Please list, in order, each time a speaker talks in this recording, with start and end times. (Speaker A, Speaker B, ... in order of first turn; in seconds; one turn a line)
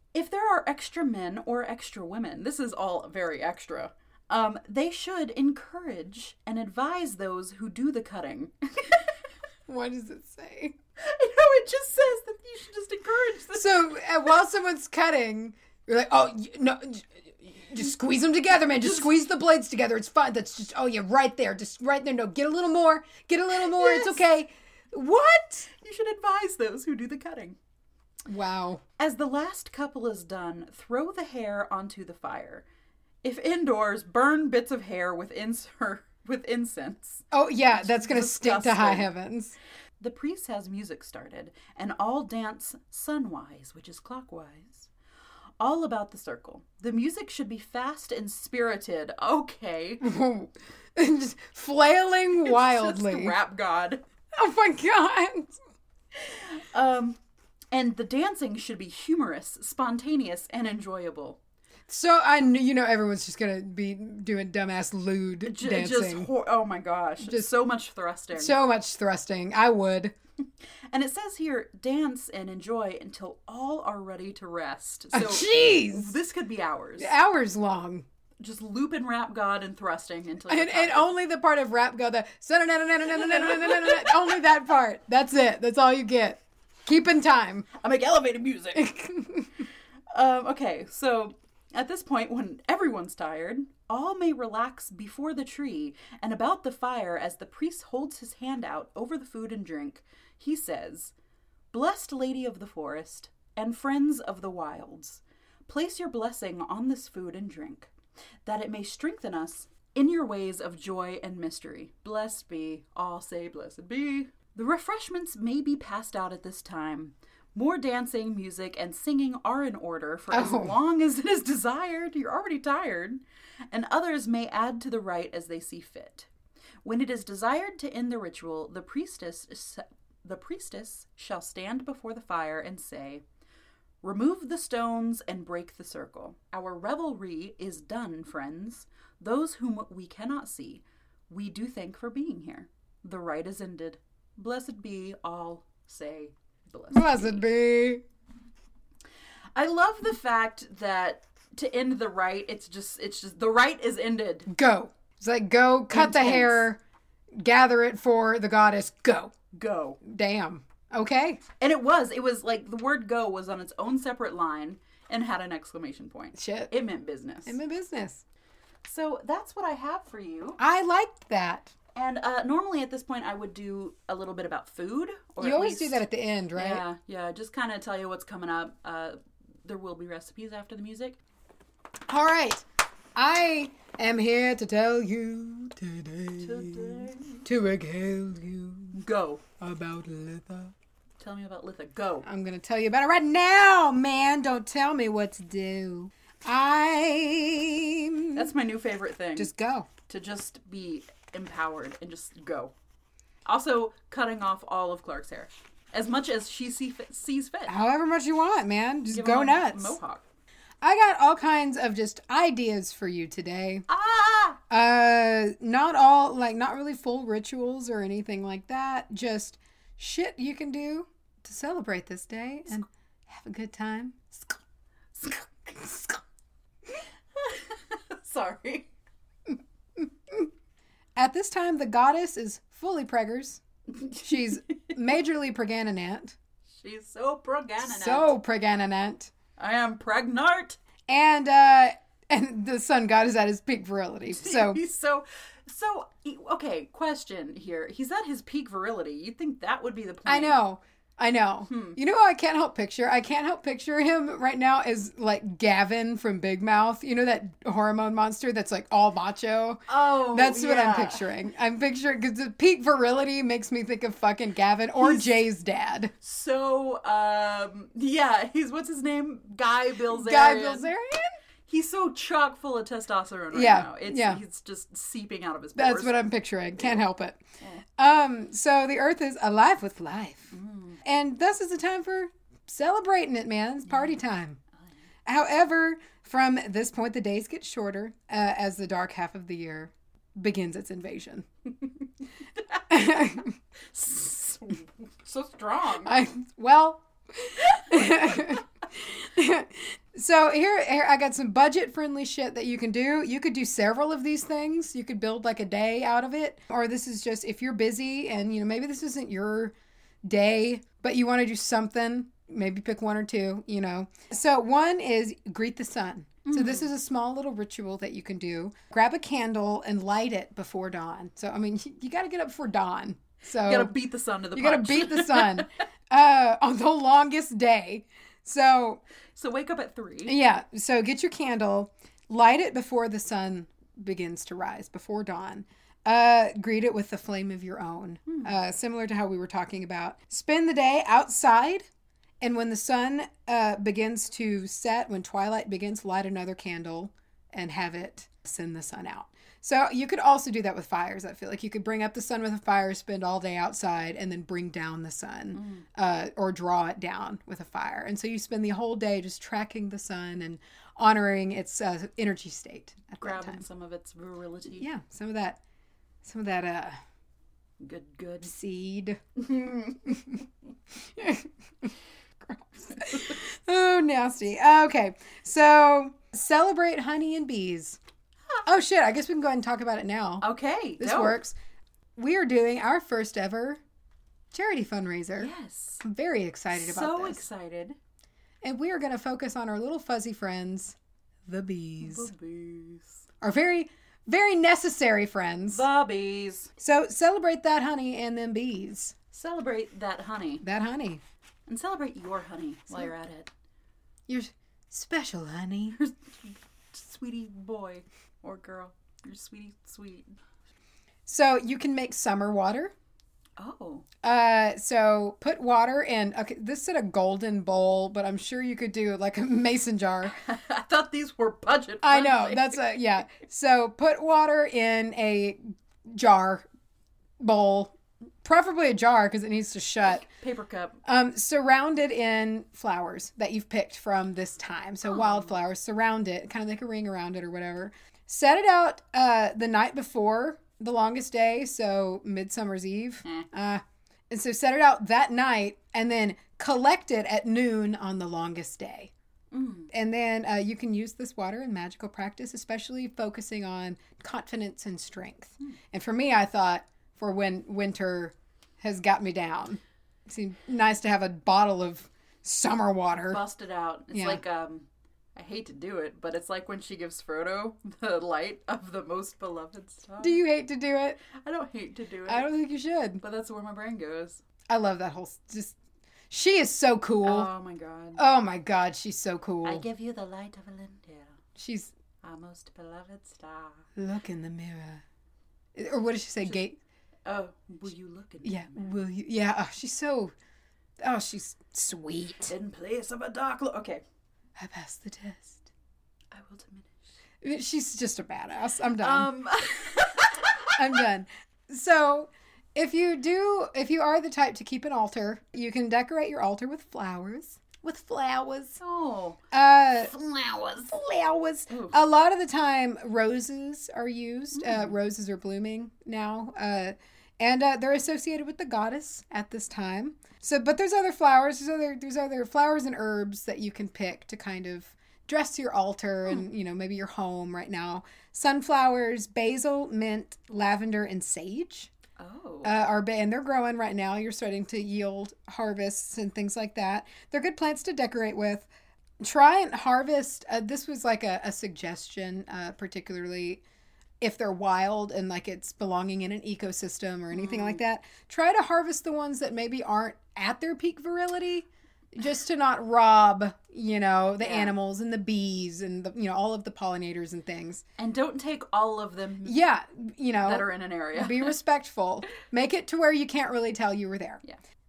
Speaker A: 0.1-9.1
Speaker B: 9.7-10.8
Speaker A: 11.0-14.0
Speaker B: 13.5-25.7
Speaker A: 23.6-24.2
Speaker A: 25.7-27.6
Speaker B: 28.3-28.8
Speaker A: 29.0-32.6
Speaker A: 33.2-39.1
Speaker B: 37.3-39.5
Speaker A: 40.0-44.9
Speaker A: 45.6-50.0
Speaker B: 50.0-53.4
Speaker A: 52.4-54.0
Speaker B: 54.3-55.6
Speaker A: 56.1-57.2
Speaker A: 57.7-61.4
Speaker B: 61.9-66.3
Speaker A: 65.4-68.6
Speaker B: 67.2-67.5
Speaker B: 68.3-70.1
Speaker A: 70.9-77.1
Speaker B: 75.1-76.1
Speaker B: 77.0-78.0
Speaker A: 78.4-81.1
Speaker B: 80.5-87.7
Speaker A: 83.2-84.4
Speaker A: 87.7-88.9
Speaker B: 88.7-89.7
Speaker A: 90.1-101.1
Speaker A: 101.7-107.9
Speaker A: 108.5-126.3
Speaker B: 120.3-120.7
Speaker A: 126.8-133.2
Speaker A: 134.0-147.4
Speaker B: 146.9-148.0
Speaker A: 149.6-154.5
Speaker B: 154.5-156.8
Speaker A: 155.9-156.7
Speaker B: 157.3-159.3
Speaker A: 159.5-160.0
Speaker B: 160.0-161.4
Speaker A: 161.6-167.6
Speaker B: 166.3-166.7
Speaker B: 167.4-168.2
Speaker A: 168.8-170.6
Speaker B: 170.6-171.7
Speaker A: 171.9-176.0
Speaker B: 175.4-176.8
Speaker A: 176.6-181.2
Speaker B: 182.1-189.0
Speaker A: 186.4-187.4
Speaker A: 188.9-189.4
Speaker B: 189.6-190.7
Speaker A: 191.2-192.2
Speaker B: 192.2-198.5
Speaker A: 198.3-199.5
Speaker B: 199.4-199.9
Speaker A: 200.1-202.7
Speaker A: 203.4-207.7
Speaker B: 207.7-210.0
Speaker A: 209.1-210.2
Speaker B: 210.8-213.8
Speaker A: 213.9-214.6
Speaker B: 214.7-224.6
Speaker A: 225.2-226.2
Speaker A: 226.9-228.9
Speaker B: 230.0-230.5
Speaker B: 231.2-236.3
Speaker A: 236.7-238.3
Speaker B: 237.8-239.3
Speaker A: 239.6-240.8
Speaker B: 241.1-244.8
Speaker A: 244.3-250.6
Speaker B: 250.2-266.1
Speaker A: 251.7-252.0
Speaker A: 259.9-261.2
Speaker A: 265.0-265.4
Speaker A: 266.2-270.9
Speaker B: 270.1-271.3
Speaker A: 271.7-276.2
Speaker B: 273.5-274.4
Speaker B: 275.8-277.4
Speaker B: 278.0-284.6
Speaker A: 280.5-281.0
Speaker A: 283.9-284.1
Speaker B: 285.2-291.5
Speaker A: 292.7-293.4
Speaker B: 292.9-293.5
Speaker A: 293.9-296.2
Speaker B: 296.0-323.9
Speaker A: 297.7-298.5
Speaker A: 316.4-316.9
Speaker A: 323.6-325.6
Speaker B: 324.5-329.0
Speaker A: 329.3-330.4
Speaker B: 330.2-341.9
Speaker A: 338.3-338.6
Speaker B: 342.4-363.6
Speaker A: 355.5-355.8
Speaker A: 363.2-364.9
Speaker B: 364.8-365.6
Speaker B: 366.2-367.0
Speaker A: 367.8-368.5
Speaker B: 368.4-370.4
Speaker A: 369.5-370.1
Speaker B: 371.0-378.0
Speaker B: 378.6-380.4
Speaker A: 380.4-381.4
Speaker B: 381.0-381.5
Speaker B: 382.1-383.8
Speaker B: 384.5-387.4
Speaker A: 385.4-386.0
Speaker A: 386.7-387.9
Speaker B: 388.6-392.3
Speaker A: 392.0-393.2
Speaker B: 393.4-395.8
Speaker A: 395.7-396.7
Speaker B: 396.8-399.1
Speaker A: 399.3-400.6
Speaker B: 400.6-401.2
Speaker A: 401.7-403.5
Speaker B: 404.3-406.0
Speaker A: 405.9-410.3
Speaker B: 411.2-412.9
Speaker A: 413.6-414.1
Speaker B: 414.2-420.3
Speaker A: 420.3-422.8
Speaker B: 422.0-426.6
Speaker B: 427.4-430.2
Speaker A: 430.2-431.0
Speaker B: 431.0-449.1
Speaker A: 435.1-435.5
Speaker A: 449.5-449.9
Speaker B: 449.9-463.4
Speaker A: 463.2-470.4
Speaker B: 464.1-464.4
Speaker B: 470.2-471.2
Speaker A: 471.3-472.5
Speaker B: 472.3-473.2
Speaker A: 473.2-474.4
Speaker B: 474.7-475.7
Speaker B: 476.3-477.5
Speaker A: 477.2-478.2
Speaker B: 478.2-479.8
Speaker A: 479.6-481.4
Speaker B: 481.6-481.9
Speaker A: 482.2-483.9
Speaker B: 483.9-485.0
Speaker B: 485.7-486.8
Speaker A: 487.2-489.0
Speaker B: 488.4-490.3
Speaker B: 491.0-492.5
Speaker A: 492.5-494.0
Speaker B: 494.6-495.6
Speaker A: 496.3-497.1
Speaker B: 497.4-499.3
Speaker A: 499.0-501.0
Speaker B: 500.8-508.8
Speaker A: 508.8-509.4
Speaker B: 509.5-510.1
Speaker A: 510.1-510.9
Speaker B: 510.9-531.9
Speaker A: 511.7-511.9
Speaker A: 514.5-514.9
Speaker A: 532.2-532.7
Speaker B: 532.6-538.7
Speaker B: 539.2-543.6
Speaker B: 544.2-557.8
Speaker A: 547.3-547.8
Speaker A: 554.4-554.8
Speaker A: 558.0-559.6
Speaker B: 559.4-564.4
Speaker A: 560.4-561.5